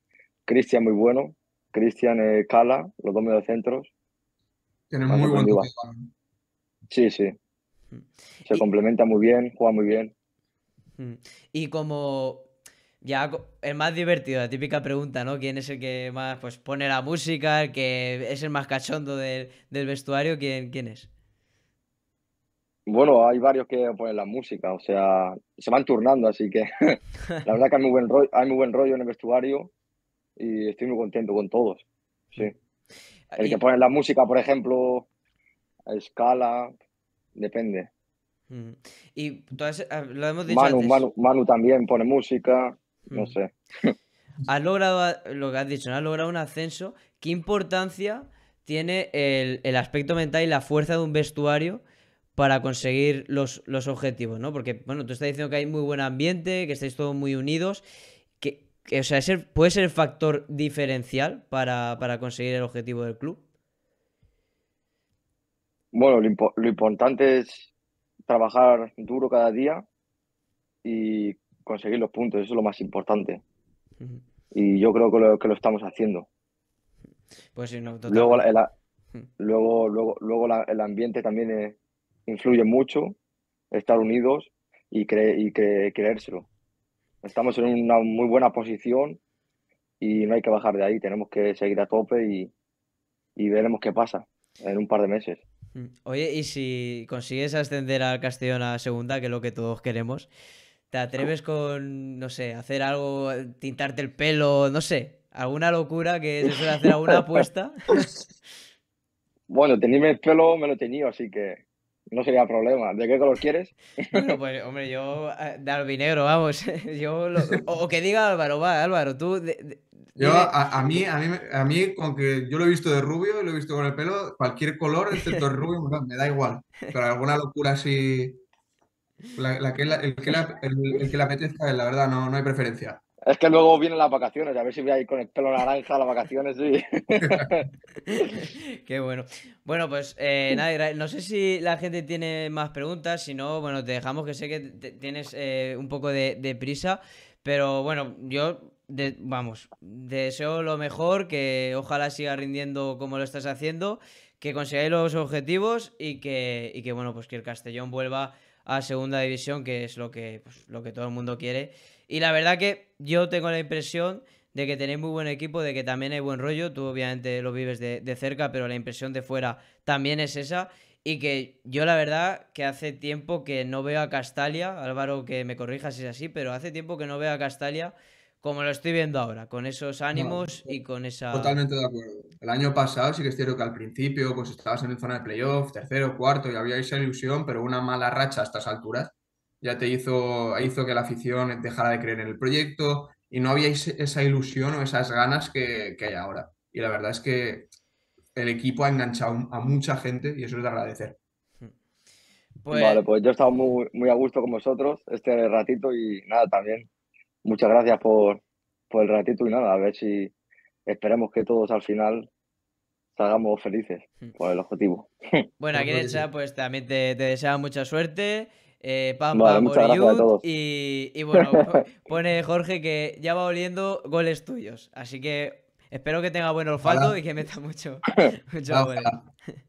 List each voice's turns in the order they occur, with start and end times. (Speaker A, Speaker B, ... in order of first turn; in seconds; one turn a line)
Speaker A: 0.5-3.9
Speaker B: 4.9-6.1
Speaker A: 5.1-5.7
Speaker A: 6.9-7.3
Speaker C: 7.9-8.6
Speaker A: 8.5-10.1
Speaker C: 11.0-12.5
Speaker C: 13.0-21.1
Speaker A: 22.9-29.7
Speaker A: 30.4-31.8
Speaker C: 33.3-33.6
Speaker A: 33.4-35.1
Speaker A: 35.9-36.7
Speaker A: 37.4-37.9
Speaker C: 38.5-41.0
Speaker A: 40.5-43.9
Speaker C: 43.1-43.3
Speaker C: 44.5-51.8
Speaker C: 52.4-57.8
Speaker C: 58.4-63.4
Speaker A: 65.9-67.7
Speaker A: 68.3-69.8
Speaker A: 70.8-73.4
Speaker A: 74.5-76.3
Speaker C: 77.5-78.5
Speaker A: 78.1-78.7
Speaker A: 79.4-83.2
Speaker A: 83.7-86.5
Speaker A: 87.2-89.2
Speaker A: 90.0-92.5
Speaker A: 93.4-95.4
Speaker C: 95.7-100.3
Speaker C: 100.9-108.1
Speaker A: 109.5-114.4
Speaker C: 114.1-120.5
Speaker B: 120.2-128.4
Speaker B: 129.3-133.0
Speaker A: 133.3-137.6
Speaker C: 138.0-181.6
Speaker B: 180.1-180.7
Speaker B: 181.3-197.7
Speaker B: 198.3-201.2
Speaker C: 202.6-203.0
Speaker A: 202.7-206.9
Speaker A: 207.4-210.3
Speaker A: 210.8-212.3
Speaker A: 213.2-215.4
Speaker C: 215.6-229.1
Speaker B: 215.7-216.3
Speaker A: 219.3-220.4
Speaker B: 226.8-227.2
Speaker B: 228.7-229.2